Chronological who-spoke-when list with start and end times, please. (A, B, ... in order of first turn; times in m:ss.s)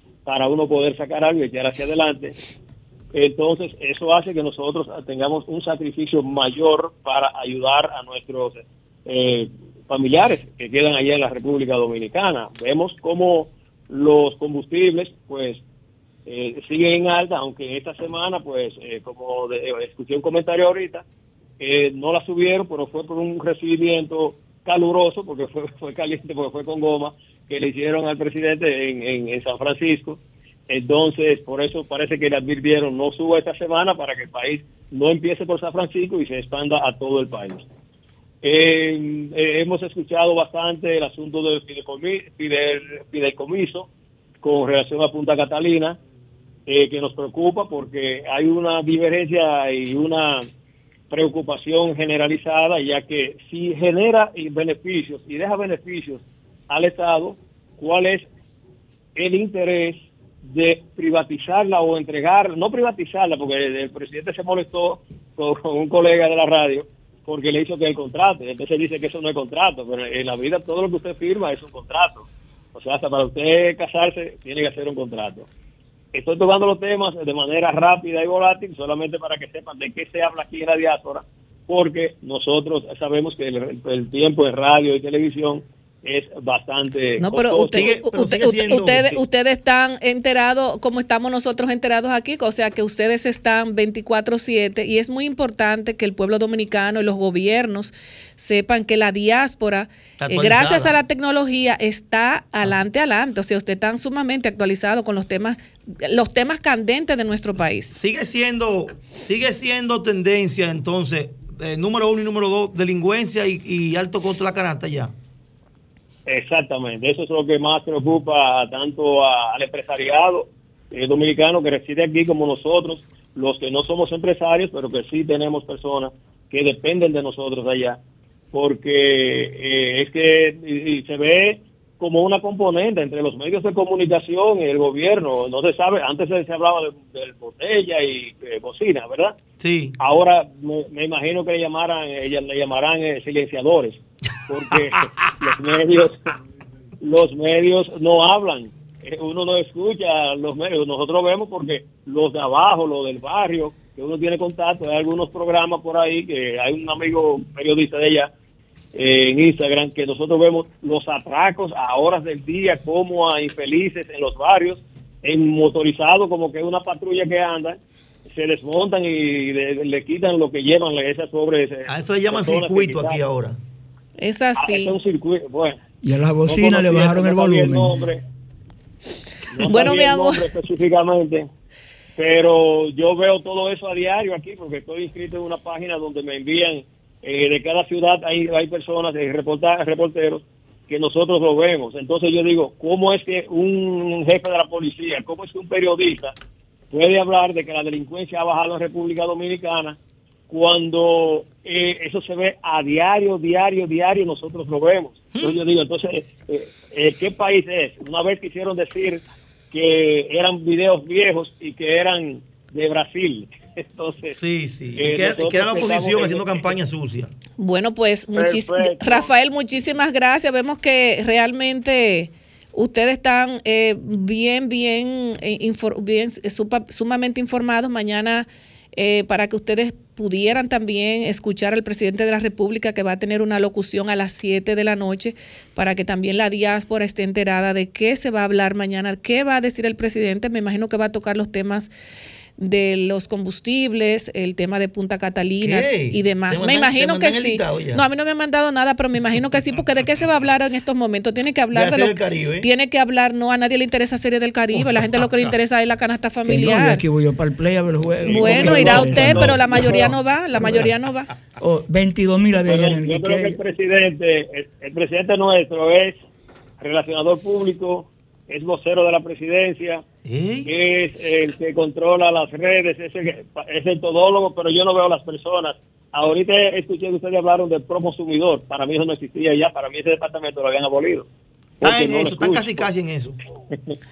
0:00.2-0:02.4 A
0:03.1-0:15.6 A
0:16.3-0:21.0 A
0:21.6-0:37.6 A
0:38.4-0:43.9 A
0:44.4-0:46.0 A
0:46.7-0:50.5 A
0:51.1-0:58.2 A
0:59.2-1:15.5 A
1:16.1-1:27.9 A
1:27.2-1:48.0 B
1:27.7-1:29.2 C
1:40.2-1:41.0 C
1:47.9-1:55.1 C
1:56.3-2:08.0 A
2:08.5-2:19.4 A
2:19.6-2:20.0 C
2:20.0-2:26.3 A
2:27.0-2:38.3 A
2:38.9-2:47.8 A
2:48.3-2:53.2 A
2:51.9-2:53.6 C
2:54.2-2:54.9 B
2:54.6-2:55.8 A
2:56.0-2:58.0 D
2:56.4-2:58.2 A
2:59.5-3:01.5 A
2:59.6-3:00.4 B
3:02.2-3:16.4 A
3:16.9-3:20.0 A
3:20.5-3:34.4 A
3:34.3-3:37.3 C
3:35.0-3:36.8 A
3:37.6-4:01.9 B
3:38.3-3:39.3 A
4:02.6-4:17.0 B
4:05.6-4:08.0 C
4:11.7-4:12.7 C
4:15.1-4:15.5 C
4:16.4-4:19.6 D
4:18.2-4:20.1 A
4:18.3-4:21.3 B
4:20.6-4:20.9 D
4:21.6-4:23.6 D
4:22.6-4:26.2 A
4:26.8-4:30.0 A
4:30.2-4:30.7 C
4:30.6-4:41.3 A
4:41.8-4:42.9 A
4:41.8-4:43.4 C